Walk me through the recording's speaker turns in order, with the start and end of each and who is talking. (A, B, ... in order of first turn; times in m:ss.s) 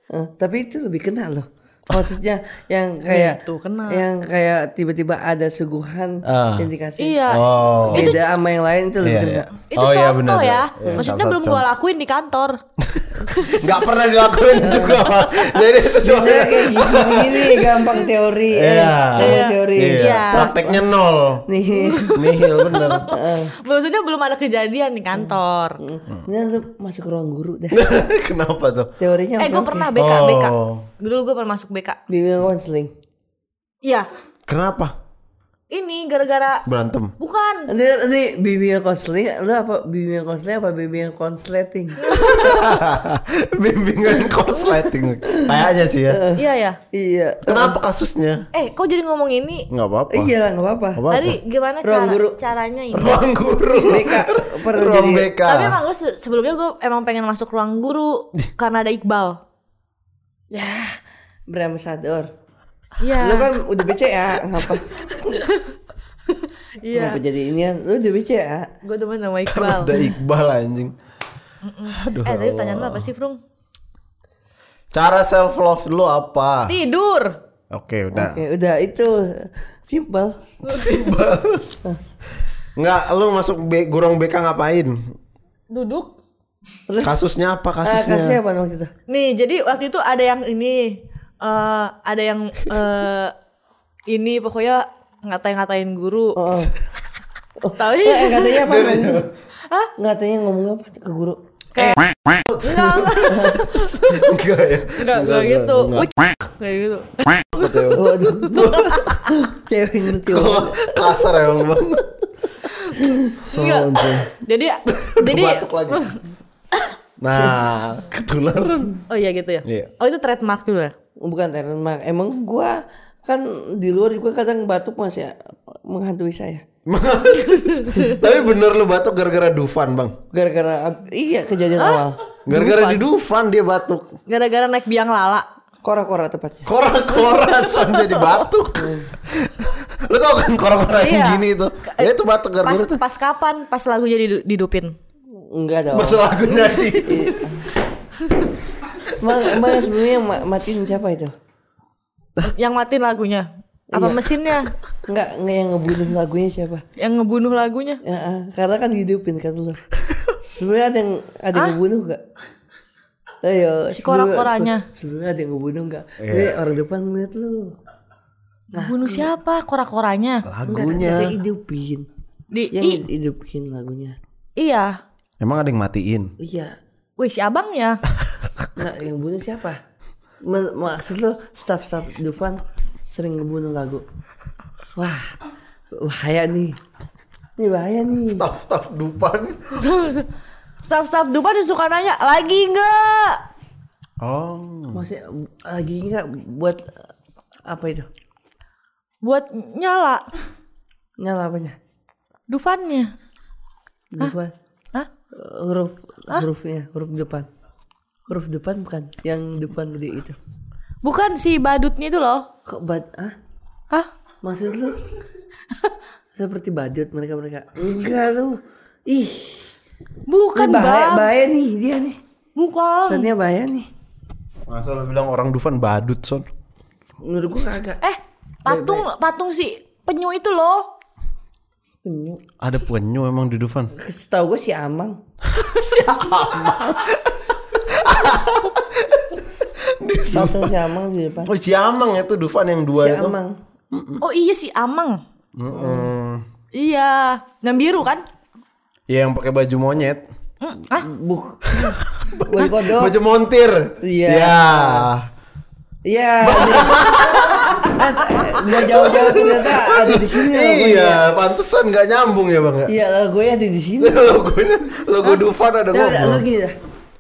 0:00.1-0:07.3 A
0:03.1-0:04.0 B
0:06.2-0:06.7 C
0:07.0-0:08.2 B
0:07.3-0:08.2 C
0:07.9-0:09.5 A
0:09.0-0:11.6 C
0:09.7-0:12.6 B
0:12.9-0:17.8 C
0:13.3-0:13.7 B
0:14.6-0:15.0 A
0:16.0-0:20.8 A
0:18.5-0:21.4 C
0:19.2-0:20.5 B
0:21.5-0:22.1 A
0:21.7-0:25.8 B
0:22.1-0:23.1 C
0:23.1-0:23.5 A
0:25.2-0:27.8 A
0:27.7-0:28.9 C
0:29.0-0:29.9 A
0:29.4-0:32.0 B
0:29.9-0:30.9 C
0:32.1-0:32.9 A
0:33.8-0:34.1 B
0:34.5-0:34.9 C
0:35.7-0:36.6 B
0:36.6-0:37.1 C
0:37.2-0:37.7 B
0:37.7-0:42.1 A
0:42.0-0:42.8 B
0:42.1-0:46.2 C
0:45.2-0:47.8 A
0:46.4-0:46.8 B
0:47.4-0:48.4 C
0:48.5-0:49.7 B
0:49.7-0:50.3 C
0:50.1-0:51.0 A
0:50.9-0:51.4 C
0:51.1-0:53.2 B
0:51.8-0:52.4 A
0:52.9-0:55.8 C
0:53.8-0:55.3 A
0:55.4-0:59.4 B
1:00.5-1:02.3 A
1:03.0-1:03.5 B
1:03.2-1:05.4 A
1:05.4-1:05.7 B
1:06.3-1:07.2 B
1:06.9-1:08.7 A
1:08.8-1:10.1 B
1:09.5-1:10.9 C
1:11.6-1:13.4 B
1:11.9-1:13.1 C
1:14.9-1:16.8 C
1:16.7-1:17.4 B
1:17.7-1:18.4 C
1:18.1-1:20.4 A
1:20.6-1:21.0 B
1:20.6-1:21.8 C
1:22.8-1:25.0 C
1:25.7-1:26.1 B
1:26.9-1:27.2 A
1:27.0-1:28.4 C
1:27.8-1:28.9 A
1:29.1-1:33.3 B
1:34.1-1:36.6 B
1:36.4-1:36.7 A
1:37.6-1:39.2 A
1:37.8-1:38.6 B
1:38.6-1:39.3 C
1:39.6-1:39.9 B
1:40.0-1:41.4 A
1:41.7-1:42.0 B
1:41.8-1:46.1 C
1:42.6-1:44.3 B
1:43.3-1:43.6 A
1:45.0-1:47.9 B
1:47.5-1:49.3 C
1:47.9-1:48.7 A
1:48.5-1:49.2 B
1:49.3-1:51.0 A
1:50.2-1:52.1 C
1:52.9-1:53.4 A
1:53.4-1:54.3 C
1:53.5-1:56.2 B
1:54.9-1:56.1 C
1:57.2-1:59.0 C
1:57.3-1:57.6 A
1:59.1-2:00.9 B
1:59.6-1:59.9 C
2:01.2-2:06.6 A
2:06.8-2:10.2 C
2:07.7-2:08.2 B
2:10.3-2:12.2 A
2:11.8-2:13.0 B
2:12.4-2:14.2 C
2:14.3-2:15.4 B
2:15.8-2:16.7 A
2:16.6-2:23.0 C
2:17.6-2:18.2 B
2:18.8-2:19.1 A
2:20.9-2:24.9 B
2:25.5-2:26.3 A
2:25.9-2:27.3 C
2:27.0-2:27.6 A
2:29.2-2:31.3 A
2:29.4-2:29.7 C
2:32.4-2:34.7 B
2:33.9-2:34.2 A
2:35.0-2:36.8 A
2:37.0-2:38.0 B
2:38.0-2:39.8 A
2:40.4-2:42.2 A
2:43.4-2:47.7 A
2:43.9-2:44.8 B
2:46.2-2:46.6 C
2:48.7-2:49.3 A
2:48.7-2:50.5 B
2:50.4-2:51.4 C
2:50.6-2:52.1 A
2:52.5-2:53.0 B
2:52.7-2:54.2 A
2:54.6-2:55.0 B
2:55.4-2:56.3 C
2:56.4-2:56.8 A
2:57.2-2:58.0 B
2:58.8-2:59.8 A
3:00.4-3:04.0 A
3:05.0-3:05.3 A
3:05.9-3:06.8 A
3:07.6-3:08.4 A
3:08.3-3:09.8 C
3:09.7-3:10.3 B
3:10.8-3:13.4 B
3:14.2-3:15.0 C
3:14.9-3:16.9 A
3:17.7-3:18.1 A
3:19.2-3:20.2 B
3:21.2-3:21.8 A
3:22.5-3:23.1 B
3:24.1-3:24.5 A
3:25.3-3:27.5 A
3:28.3-3:30.4 A
3:31.0-3:32.5 B
3:32.6-3:33.3 A
3:34.4-3:35.0 A
3:36.3-3:39.7 A
3:40.3-3:41.3 B
3:40.5-3:42.2 A
3:42.6-3:43.3 B
3:43.0-3:43.9 A
3:44.7-3:46.5 C
3:47.2-3:48.0 A
3:48.0-3:50.9 B
3:48.6-3:49.0 A
3:52.0-3:52.4 A
3:52.6-3:53.9 C
3:53.9-3:55.2 A
3:55.4-4:00.7 C
4:00.3-4:01.5 A
4:01.4-4:03.4 C
4:02.9-4:03.6 A
4:03.9-4:04.2 C
4:04.2-4:05.2 B
4:05.6-4:06.4 C
4:05.7-4:06.1 A
4:06.7-4:08.2 B
4:09.1-4:10.2 C
4:10.6-4:11.1 B
4:10.9-4:11.8 A
4:11.7-4:15.3 C
4:12.5-4:13.1 A
4:14.0-4:15.1 A
4:16.0-4:17.1 A
4:16.4-4:22.9 C
4:17.8-4:21.2 A
4:22.9-4:24.3 A
4:24.0-4:26.4 C
4:25.9-4:26.7 A